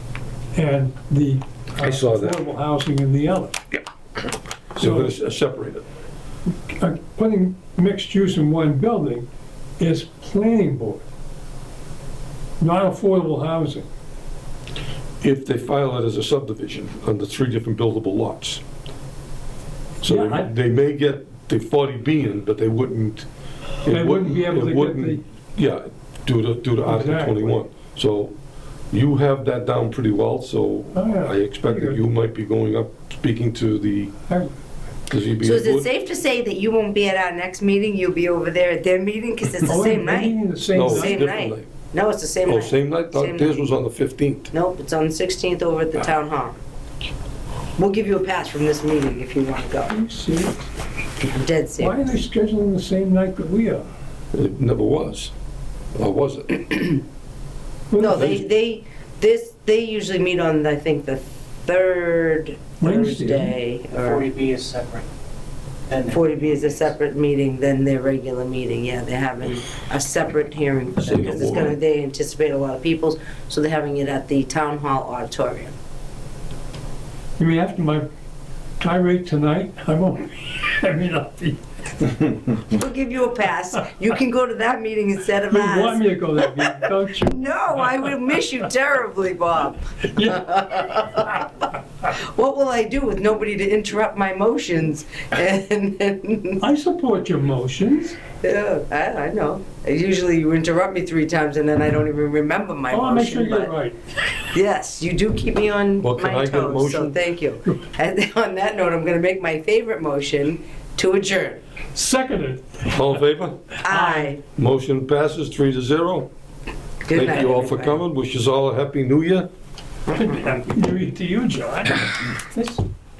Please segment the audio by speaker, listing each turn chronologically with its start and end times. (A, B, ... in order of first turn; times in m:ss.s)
0:00.5-0:03.6 A
0:01.8-0:02.4 B
0:04.8-0:05.1 A
0:04.8-0:05.8 B
0:06.7-0:09.3 A
0:09.8-0:11.0 A
0:12.6-0:13.9 A
0:15.2-0:18.6 B
0:20.0-0:23.3 B
0:20.0-0:20.5 A
0:23.8-0:28.3 B
0:23.9-0:25.2 A
0:26.8-0:27.5 A
0:28.9-0:34.1 B
0:30.9-0:32.0 A
0:35.1-0:35.8 B
0:35.4-0:43.6 C
0:39.7-0:41.2 A
0:40.7-0:41.7 B
0:42.4-0:44.5 B
0:44.5-0:46.6 C
0:47.8-0:49.9 C
0:49.9-0:50.6 A
0:51.2-0:52.0 C
0:51.8-0:53.8 A
0:54.3-0:55.3 B
0:56.0-0:56.8 B
0:57.9-0:58.4 A
0:58.0-1:04.3 C
1:02.8-1:03.5 A
1:04.0-1:05.1 D
1:05.9-1:06.9 D
1:06.1-1:15.7 C
1:11.0-1:11.8 B
1:17.4-1:18.1 A
1:18.8-1:22.1 A
1:22.7-1:31.5 C
1:25.5-1:28.2 A
1:30.1-1:30.5 A
1:32.1-1:36.6 C
1:36.6-1:38.2 A
1:38.4-1:43.7 C
1:42.9-1:44.0 A
1:44.5-1:51.6 C
1:46.0-1:47.2 B
1:51.9-1:53.2 A
1:52.9-1:53.8 B
1:53.8-1:54.4 C
1:53.8-1:54.3 A
1:54.6-1:56.3 B
1:57.1-1:58.0 C
1:57.1-1:59.5 B
2:00.1-2:00.5 C
2:00.1-2:02.8 A